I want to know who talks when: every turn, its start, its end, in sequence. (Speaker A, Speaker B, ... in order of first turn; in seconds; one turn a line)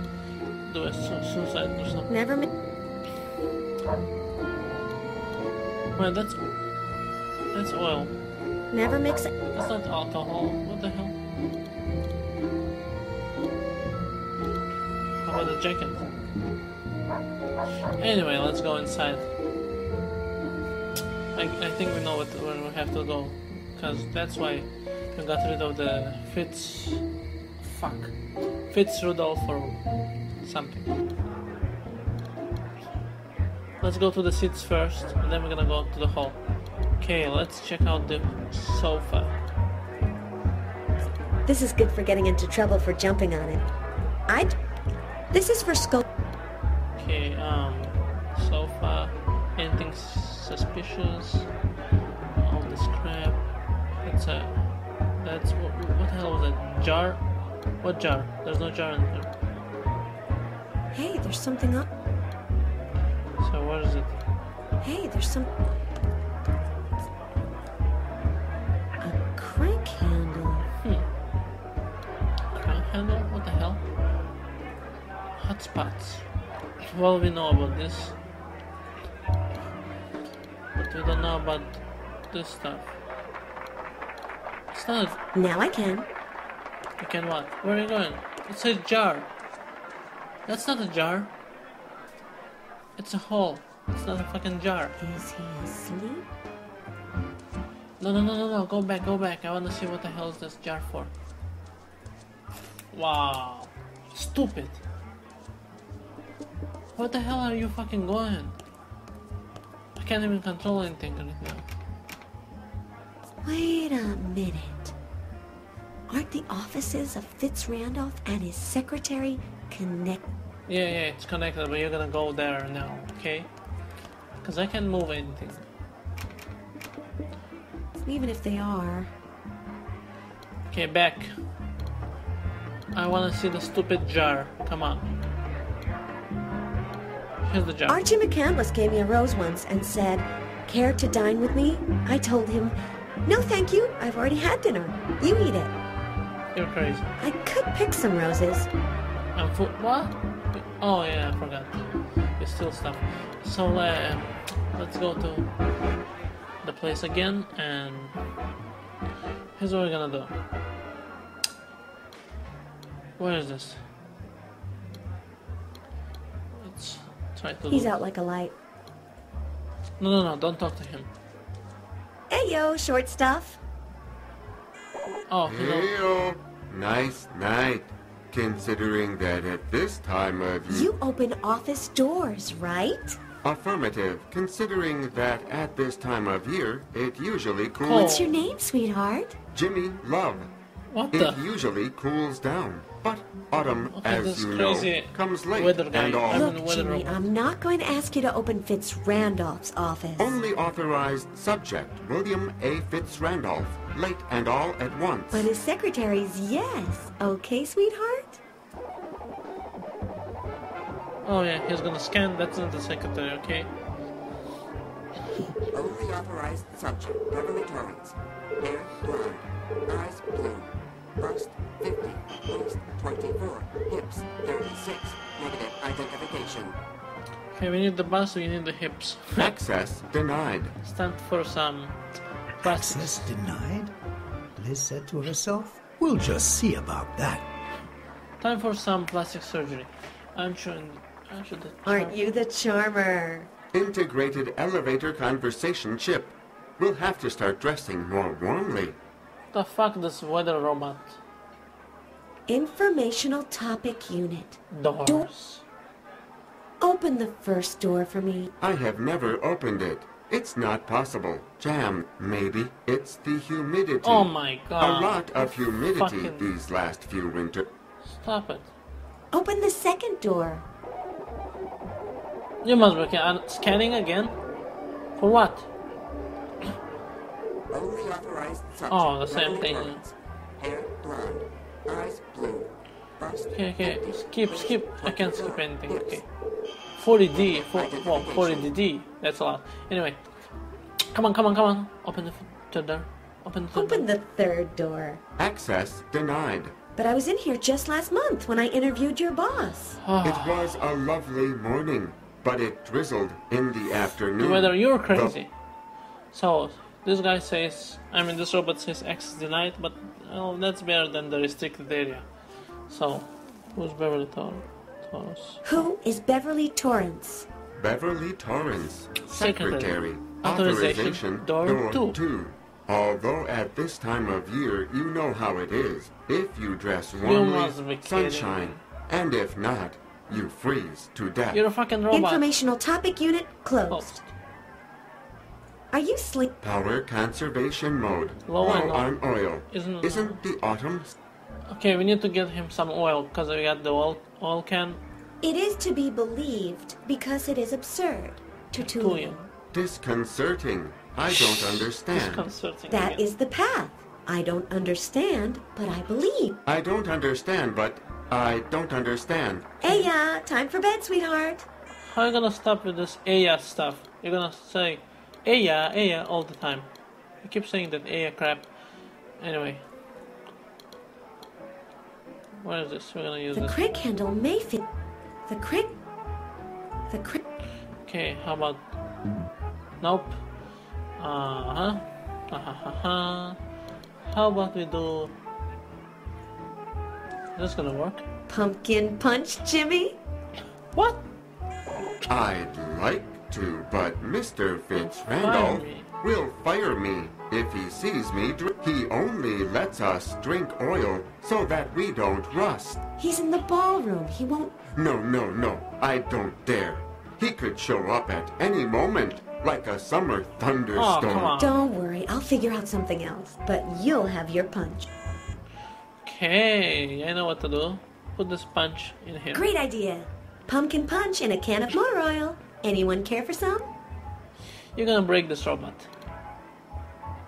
Speaker A: 0.6-2.1
Speaker B: 2.1-2.5
Speaker A: 6.0-6.4
Speaker A: 7.5-8.1
Speaker B: 8.7-9.3
Speaker A: 9.5-11.2
Speaker A: 15.2-16.1
Speaker A: 18.0-19.3
Speaker A: 21.3-27.0
Speaker A: 27.6-28.1
Speaker A: 28.7-29.8
Speaker A: 30.4-30.9
Speaker A: 33.8-36.4
Speaker A: 37.0-39.3
Speaker B: 41.5-43.6
Speaker B: 44.3-44.5
Speaker B: 45.3-46.0
Speaker A: 47.0-51.5
Speaker A: 52.4-53.4
Speaker A: 54.0-54.6
Speaker A: 55.2-57.2
Speaker A: 57.8-59.3
Speaker B: 60.9-61.9
Speaker A: 63.4-64.2
Speaker B: 64.8-65.5
Speaker B: 69.0-70.7
Speaker A: 72.5-73.8
Speaker A: 75.4-76.2
Speaker A: 76.9-78.2
Speaker A: 80.7-82.9
Speaker A: 84.7-85.2
Speaker B: 85.3-86.1
Speaker A: 87.0-89.3
Speaker A: 90.5-91.3
Speaker A: 93.0-95.0
Speaker B: 95.0-96.2
Speaker A: 98.0-101.1
Speaker A: 102.9-104.8
Speaker A: 106.9-108.5
Speaker A: 110.0-111.6
Speaker B: 113.4-114.9
Speaker B: 116.1-120.2
Speaker A: 120.7-123.5
Speaker A: 124.4-125.6
Speaker B: 128.0-129.1
Speaker A: 130.7-131.3
Speaker A: 132.9-135.1
Speaker A: 137.4-138.0
Speaker B: 137.9-145.7
Speaker A: 146.5-147.1
Speaker B: 147.2-148.7
Speaker A: 149.3-151.8
Speaker A: 152.4-155.5
Speaker A: 156.6-158.2
Speaker A: 159.6-160.3
Speaker A: 163.2-163.8
Speaker A: 166.5-168.0
Speaker B: 167.7-168.5
Speaker A: 170.0-171.1
Speaker B: 172.3-173.6
Speaker A: 175.3-175.9
Speaker C: 175.5-180.9
Speaker B: 180.7-183.2
Speaker C: 183.4-188.2
Speaker A: 187.8-188.3
Speaker B: 187.9-189.4
Speaker C: 189.5-190.5
Speaker A: 190.9-191.4
Speaker C: 191.1-196.5
Speaker A: 193.9-197.2
Speaker B: 196.3-200.4
Speaker C: 200.2-205.5
Speaker B: 205.3-208.4
Speaker A: 211.2-213.7
Speaker D: 215.7-226.8
Speaker A: 227.5-229.5
Speaker C: 229.3-230.7
Speaker A: 230.8-232.0
Speaker A: 232.6-233.3
Speaker E: 232.6-233.9
Speaker E: 234.6-237.4
Speaker A: 238.4-242.2
Speaker B: 241.8-243.5
Speaker C: 243.7-248.9
Speaker A: 249.5-251.2
Speaker B: 252.5-255.2
Speaker A: 254.7-255.6
Speaker B: 256.8-258.5
Speaker C: 258.6-267.7
Speaker A: 264.0-266.5
Speaker A: 268.0-268.7
Speaker B: 269.3-270.6
Speaker A: 272.6-274.4
Speaker A: 275.2-275.7
Speaker D: 277.7-286.2
Speaker A: 278.9-280.0
Speaker A: 283.5-286.2
Speaker A: 287.0-290.2
Speaker D: 287.3-288.7
Speaker A: 291.1-294.1
Speaker B: 293.7-295.2
Speaker C: 295.4-296.7
Speaker B: 296.9-300.0
Speaker A: 300.0-300.8
Speaker C: 300.2-305.4
Speaker A: 304.4-305.5
Speaker A: 306.3-312.3
Speaker A: 312.9-315.9
Speaker B: 315.6-317.4
Speaker C: 317.8-331.6
Speaker A: 319.2-322.2
Speaker A: 327.2-328.8
Speaker A: 331.5-332.5
Speaker B: 332.1-334.1
Speaker A: 333.9-334.3
Speaker B: 335.9-336.5
Speaker C: 336.6-341.1
Speaker A: 338.4-339.1
Speaker A: 339.7-340.4
Speaker A: 341.7-345.0
Speaker B: 345.4-349.4
Speaker A: 348.8-349.4
Speaker C: 349.7-352.4
Speaker A: 352.1-353.2
Speaker B: 352.9-356.6
Speaker C: 356.6-359.7
Speaker B: 359.8-361.6
Speaker A: 359.8-360.1
Speaker A: 362.1-366.9
Speaker A: 367.4-368.7
Speaker A: 369.4-369.8
Speaker A: 372.6-373.8
Speaker B: 373.5-374.9
Speaker B: 375.5-375.9
Speaker B: 377.1-377.4
Speaker A: 378.0-378.9
Speaker A: 380.0-380.4
Speaker A: 381.2-383.6
Speaker A: 384.2-385.3
Speaker A: 387.5-388.2
Speaker B: 388.5-390.2
Speaker A: 390.9-391.2
Speaker C: 392.3-403.0
Speaker A: 395.3-396.1
Speaker B: 403.2-404.8
Speaker C: 404.9-411.5
Speaker A: 410.9-411.8
Speaker B: 411.5-415.1
Speaker A: 416.2-419.6
Speaker B: 419.5-423.9
Speaker A: 424.9-426.1